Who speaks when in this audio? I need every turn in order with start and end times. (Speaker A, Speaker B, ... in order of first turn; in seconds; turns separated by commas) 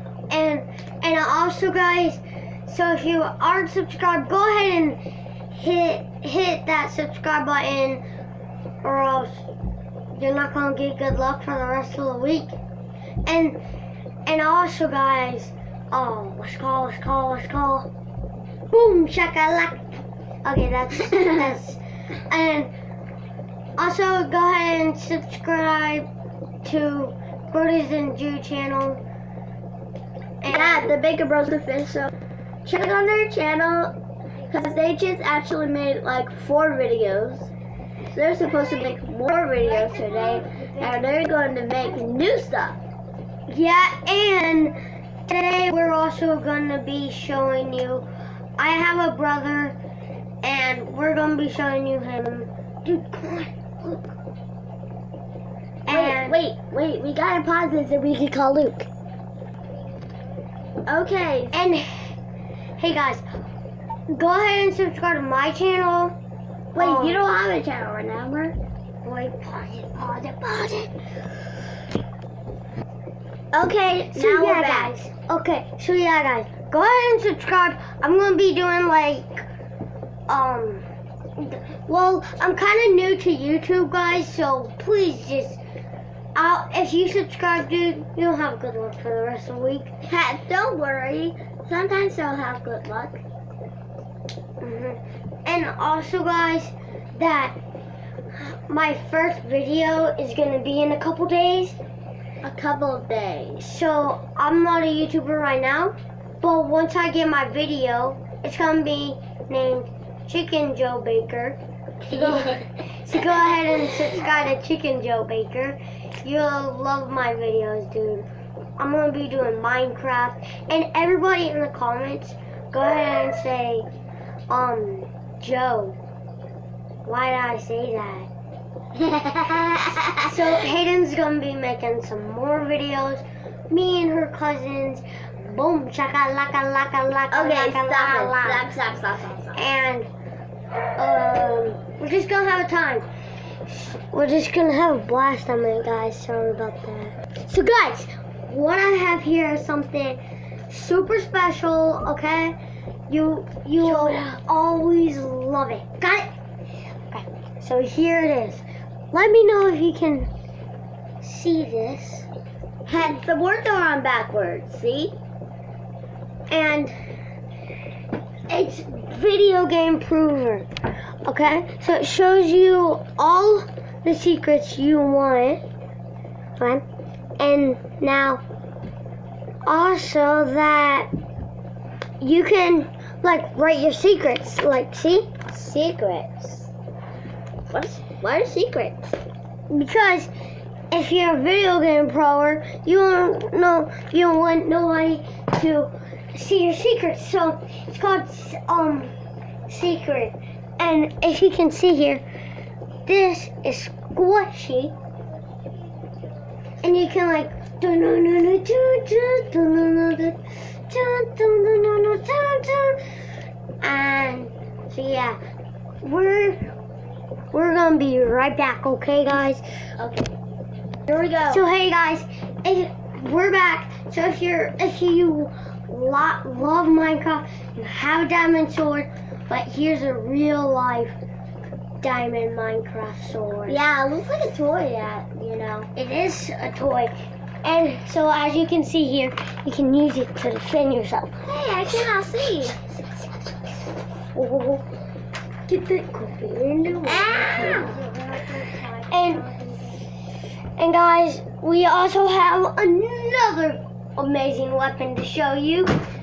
Speaker A: 0.3-5.0, Speaker A: 5.5-8.0, Speaker A: 8.8-9.5, Speaker A: 10.1-12.6, Speaker A: 13.2-13.6, Speaker A: 14.3-17.9, Speaker A: 18.7-19.9, Speaker A: 20.4-22.7, Speaker A: 23.8-26.1, Speaker A: 26.6-29.0, Speaker A: 30.4-31.0, Speaker B: 30.5-32.1, Speaker B: 32.7-37.5, Speaker B: 38.1-42.8, Speaker A: 39.8-41.0, Speaker A: 43.5-44.8, Speaker A: 45.3-48.1, Speaker A: 48.6-49.8, Speaker A: 50.4-54.1, Speaker A: 55.9-56.4, Speaker B: 55.9-58.9, Speaker B: 60.9-61.7, Speaker A: 61.5-62.1, Speaker A: 62.8-63.2, Speaker A: 64.1-66.2, Speaker B: 66.8-68.6, Speaker A: 66.8-67.2, Speaker A: 69.0-71.0, Speaker B: 73.5-74.9, Speaker A: 74.1-79.5, Speaker A: 80.3-80.8, Speaker A: 81.4-85.6, Speaker A: 86.3-89.9, Speaker B: 90.0-93.2, Speaker A: 94.6-97.6, Speaker A: 98.3-101.8, Speaker B: 102.4-103.7, Speaker A: 103.6-118.3, Speaker B: 112.1-112.7, Speaker A: 118.8-123.9, Speaker A: 124.5-126.0, Speaker A: 127.0-128.3, Speaker B: 128.9-130.6, Speaker A: 130.2-138.7, Speaker B: 137.3-139.6, Speaker A: 139.6-140.1, Speaker A: 141.0-143.1, Speaker A: 143.7-152.6, Speaker A: 153.1-156.3, Speaker B: 153.8-154.4, Speaker A: 157.6-160.3, Speaker A: 161.2-162.3, Speaker B: 162.9-165.2, Speaker A: 166.5-166.9, Speaker A: 168.5-170.7, Speaker A: 171.2-175.6, Speaker A: 176.6-176.8, Speaker A: 177.4-178.4, Speaker A: 179.7-181.1, Speaker A: 182.2-185.3, Speaker B: 185.5-186.7, Speaker B: 187.7-189.1, Speaker A: 189.7-190.3, Speaker A: 190.9-199.1, Speaker A: 199.7-202.2, Speaker A: 203.1-204.9, Speaker A: 206.8-213.1, Speaker A: 213.8-215.4, Speaker A: 216.0-216.7, Speaker A: 217.5-219.6, Speaker B: 220.0-220.3, Speaker B: 221.1-221.6, Speaker A: 221.5-231.2, Speaker A: 232.0-233.8, Speaker B: 233.7-235.9, Speaker A: 235.9-241.4, Speaker B: 241.4-242.8, Speaker A: 243.0-243.3, Speaker A: 244.3-244.9, Speaker A: 245.7-248.2, Speaker B: 247.0-248.8, Speaker A: 249.1-249.9, Speaker A: 250.8-255.9